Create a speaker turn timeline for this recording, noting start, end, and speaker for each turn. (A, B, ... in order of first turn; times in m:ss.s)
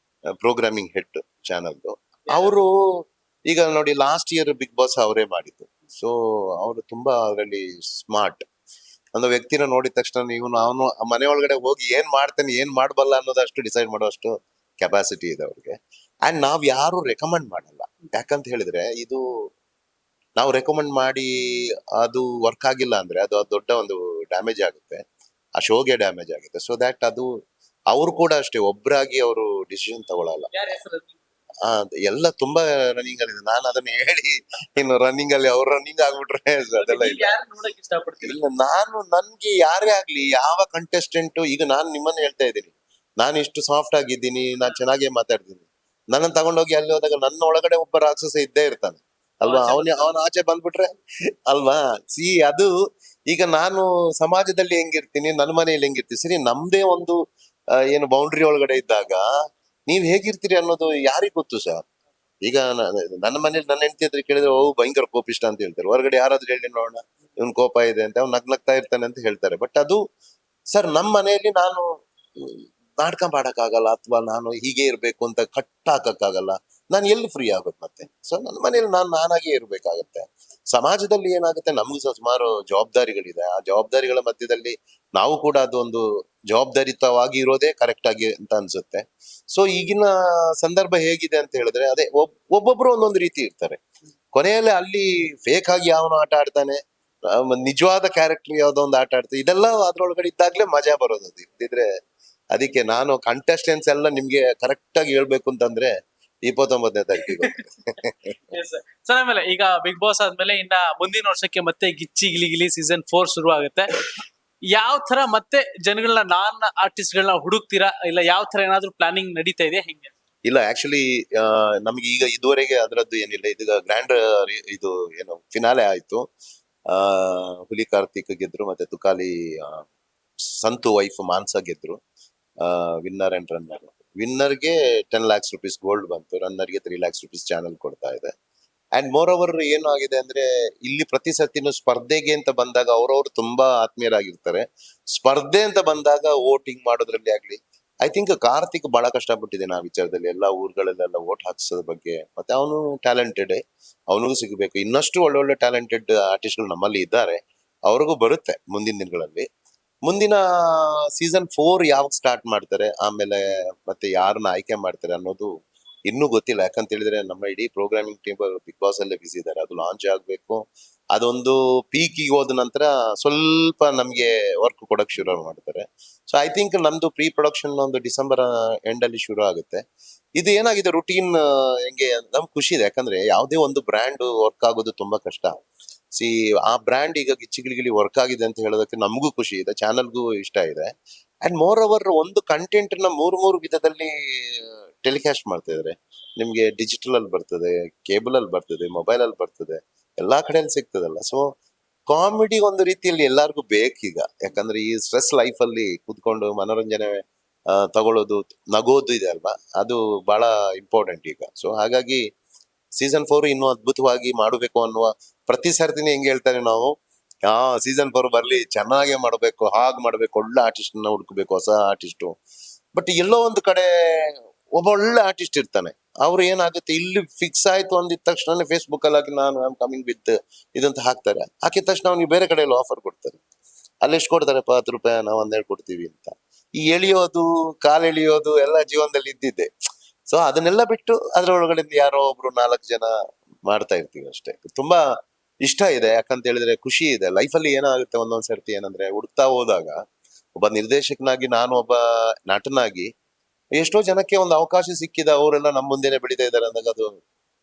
0:00.4-0:02.7 A
0:02.3-0:02.5 B
0:03.5-0:08.4 A
0:09.2-0:15.7 A
0:16.3-0:19.2 A
0:20.4-0:21.3 A
0:22.0-0:25.0 A
0:25.6-0:27.3 A
0:27.9-0:30.5 A
0:30.5-0:31.2 B
0:31.6-0:37.3 A
0:36.8-0:38.4 B
0:38.2-0:50.9 A
0:49.4-0:50.1 B
0:51.5-0:52.7 A
0:53.3-0:57.2 A
0:57.9-0:59.2 A
0:59.9-1:01.8 A
1:02.4-1:10.0 A
1:10.7-1:11.8 A
1:12.4-1:33.8 A
1:34.3-1:36.8 A
1:37.4-1:41.8 A
1:42.5-1:45.9 A
1:46.5-1:48.4 A
1:47.2-1:47.6 B
1:48.5-1:54.2 B
1:54.7-2:00.1 B
2:00.5-2:06.2 A
2:06.9-2:09.9 A
2:10.5-2:12.0 A
2:12.6-2:18.3 A
2:19.0-2:39.4 A
2:40.1-2:45.5 A
2:46.1-2:59.8 A
3:00.4-3:05.5 A
3:06.1-3:10.9 A
3:11.4-3:21.4 A
3:22.1-3:27.2 A
3:27.7-3:32.2 A
3:33.0-3:36.9 A
3:37.5-3:42.3 A
3:42.9-3:53.4 A
3:54.0-3:59.7 A
4:00.3-4:03.1 A
4:03.7-4:05.0 A
4:05.6-4:10.0 A
4:10.6-4:13.1 A
4:13.8-4:17.1 A